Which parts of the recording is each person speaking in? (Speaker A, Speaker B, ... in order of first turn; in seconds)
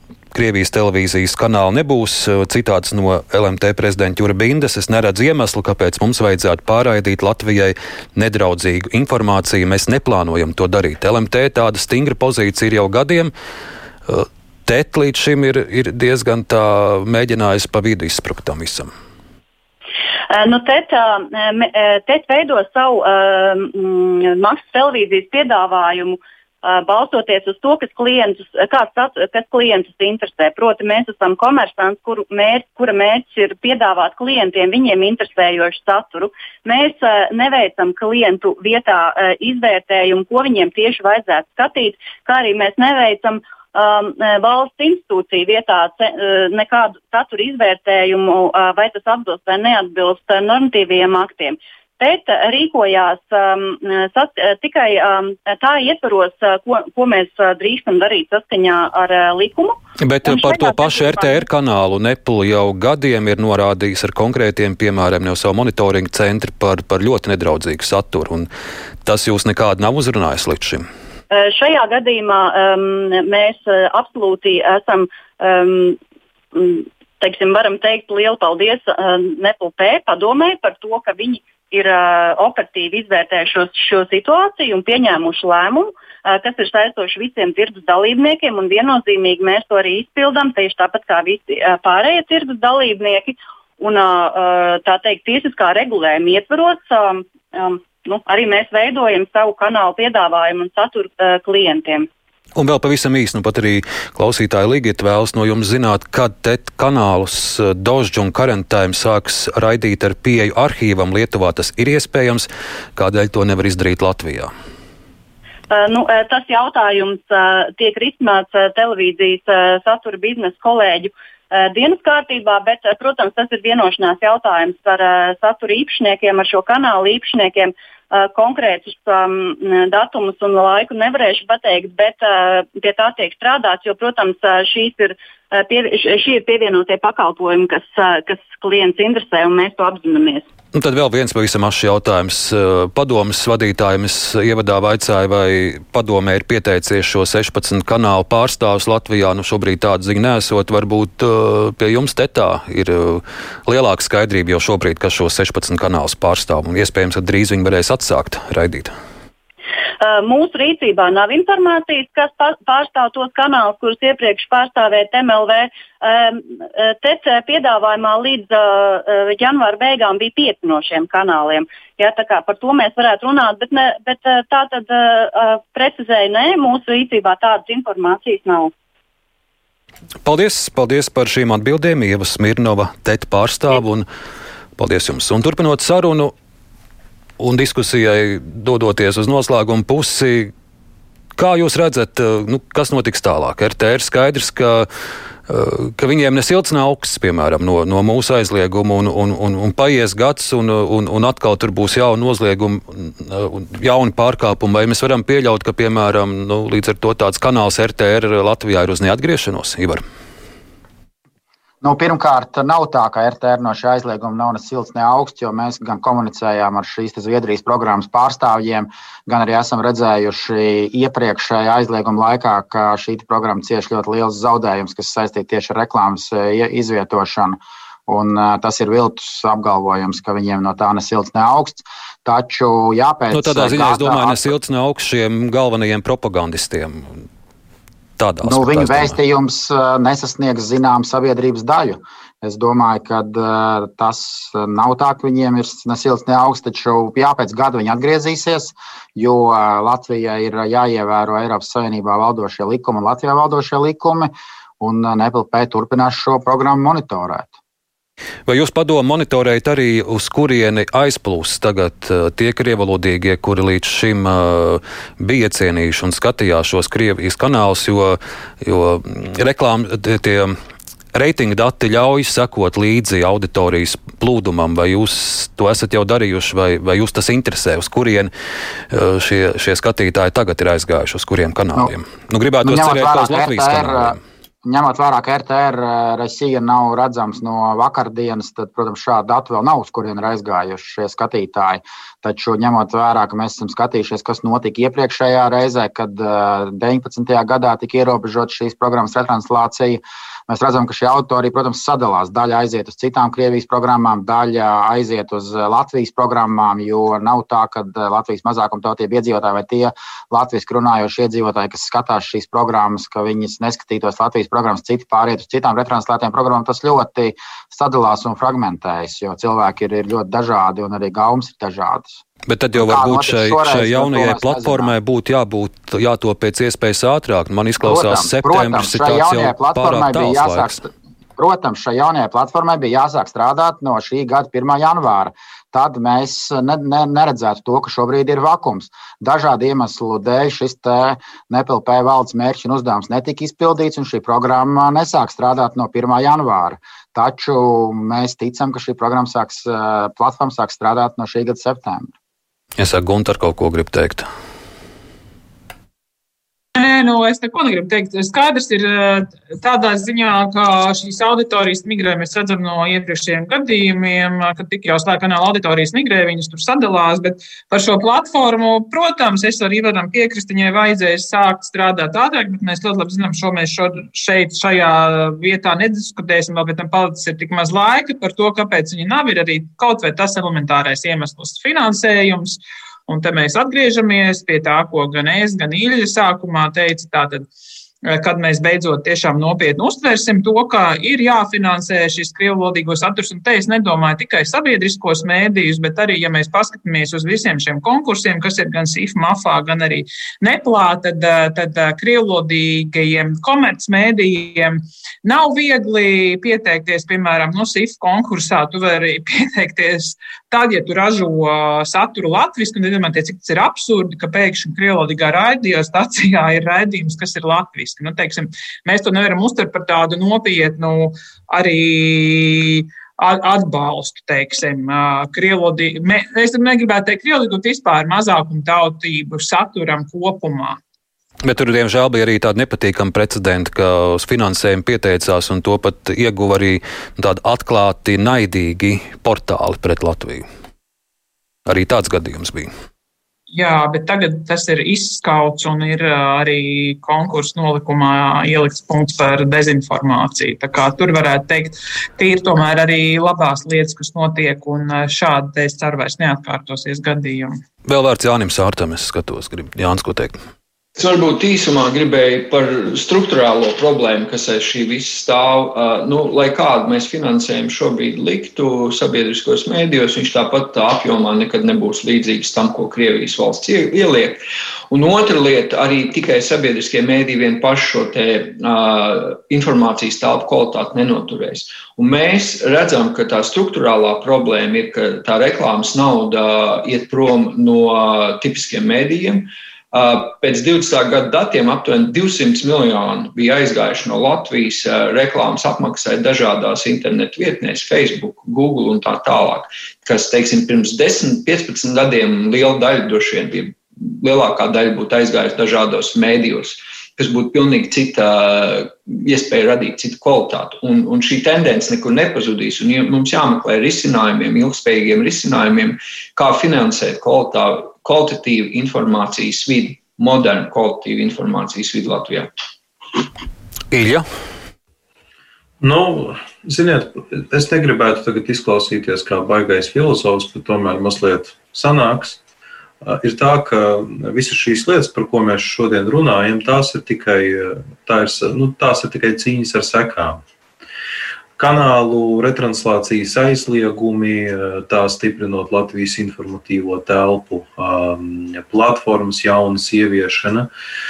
Speaker A: 0.3-13.3, 14.1-18.9, 60.0-68.5, 69.0-70.8, 102.5-114.5, 140.7-158.9, 180.2-184.1, 184.8-186.3, 187.4-190.5, 191.3-194.9, 195.5-210.0, 233.3-237.1, 238.2-239.2, 258.5-270.5, 271.1-278.3, 278.9-284.2, 322.5-330.8, 352.8-354.3, 431.4-440.4, 441.6-442.7, 457.8-460.4, 523.9-524.2
Speaker B: 20.3-61.4, 71.3-76.0, 76.5-102.1, 115.7-140.4, 160.0-178.7
Speaker C: 211.8-234.5, 238.4-257.5, 282.6-322.2, 322.7-324.9, 327.8-352.1
Speaker D: 356.7-387.5, 388.0-430.8, 443.5-457.6
Speaker E: 460.9-522.5
Speaker F: 525.8-532.4, 533.0-540.4, 541.6-550.7